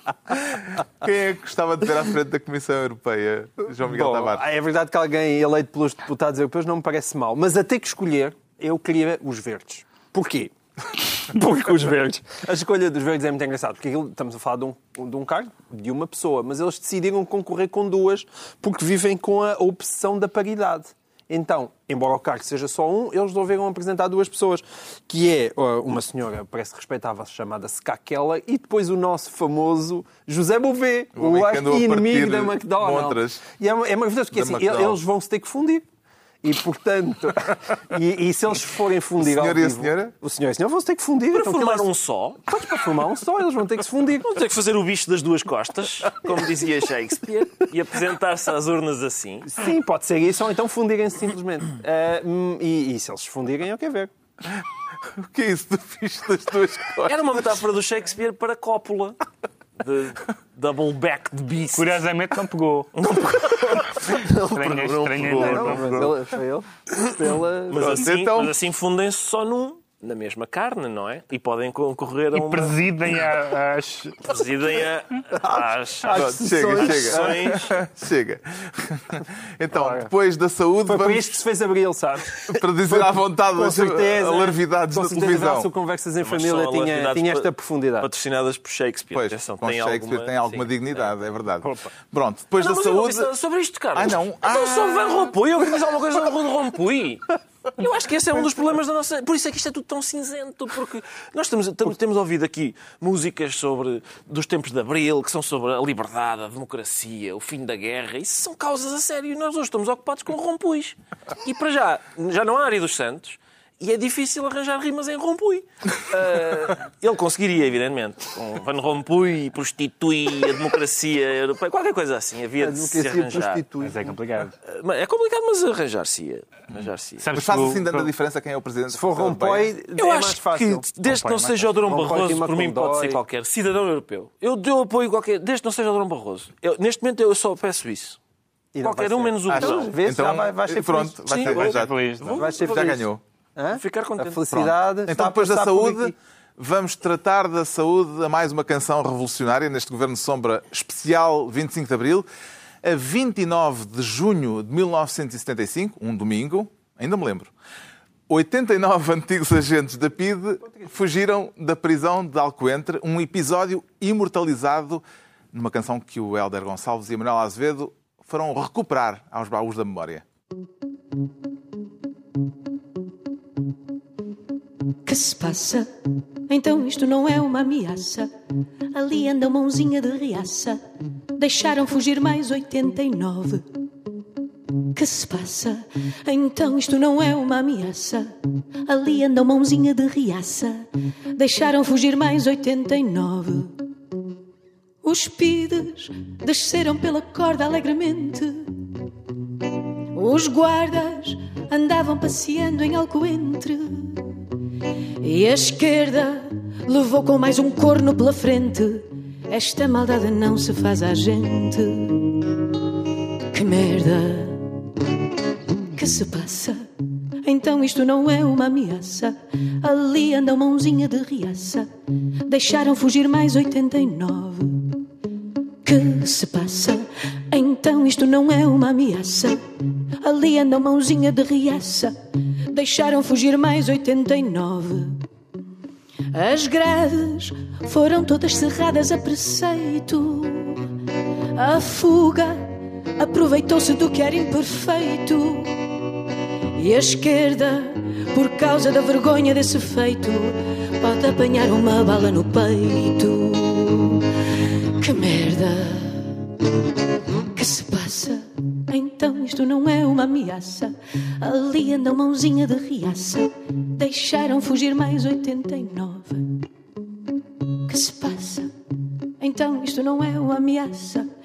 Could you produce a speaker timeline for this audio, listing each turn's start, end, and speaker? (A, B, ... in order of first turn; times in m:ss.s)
0:00.8-0:04.4 A
0:03.8-0:35.8 B
0:31.2-0:33.4 A
0:34.3-0:35.0 A
0:36.4-0:41.9 B
0:39.2-0:40.1 A
0:41.3-0:42.5 C
0:42.4-0:44.3 B
0:44.2-0:49.5 C
0:49.4-0:54.1 B
0:55.1-0:57.4 A
0:57.0-0:59.2 C
0:59.8-1:02.0 C
1:01.7-1:03.0 D
1:03.0-1:05.9 C
1:04.3-1:06.1 D
1:05.3-1:08.1 B
1:06.9-1:12.8 C
1:07.8-1:08.5 A
1:12.3-1:14.4 D
1:14.2-1:17.7 C
1:16.0-1:17.5 B
1:16.0-1:21.4 A
1:19.7-1:20.1 B
1:20.9-1:28.1 B
1:22.5-1:25.7 A
1:26.2-1:31.2 C
1:29.1-1:33.3 A
1:32.6-2:03.6 C
1:33.9-1:35.3 A
2:02.6-2:04.2 B
2:03.8-2:04.5 D
2:04.6-2:07.3 C
2:07.2-2:08.1 D
2:07.3-2:09.7 A
2:08.9-2:10.8 B
2:10.0-2:18.2 C
2:11.0-2:11.7 D
2:11.8-2:13.2 B
2:18.7-2:21.6 B
2:18.8-2:20.0 C
2:19.5-2:23.2 A
2:21.4-2:23.0 C
2:21.5-2:22.5 D
2:22.4-2:26.1 B
2:23.7-2:24.4 C
2:24.5-2:32.2 A
2:32.8-2:37.5 A
2:38.3-2:50.2 A
2:55.0-2:55.9 E
2:56.5-2:58.3 E
2:58.9-3:00.8 E
3:01.4-3:03.7 E
3:04.9-3:08.3 E
3:08.9-3:10.8 E
3:11.4-3:13.8 E
3:15.0-3:18.7 E
3:20.1-3:24.3 E
3:25.2-3:32.4 E
3:33.5-3:34.6 E
3:35.9-3:36.8 E
3:37.4-3:41.8 E
3:42.5-3:45.0 E
3:45.8-3:49.6 E
3:50.2-3:52.1 E
3:52.7-3:55.2 E
3:56.3-4:00.9 E
4:01.5-4:05.7 E
4:06.8-4:14.2 E
4:15.0-4:16.4 E
4:17.5-4:26.6 E
4:27.9-4:28.7 E
4:29.4-4:31.2 E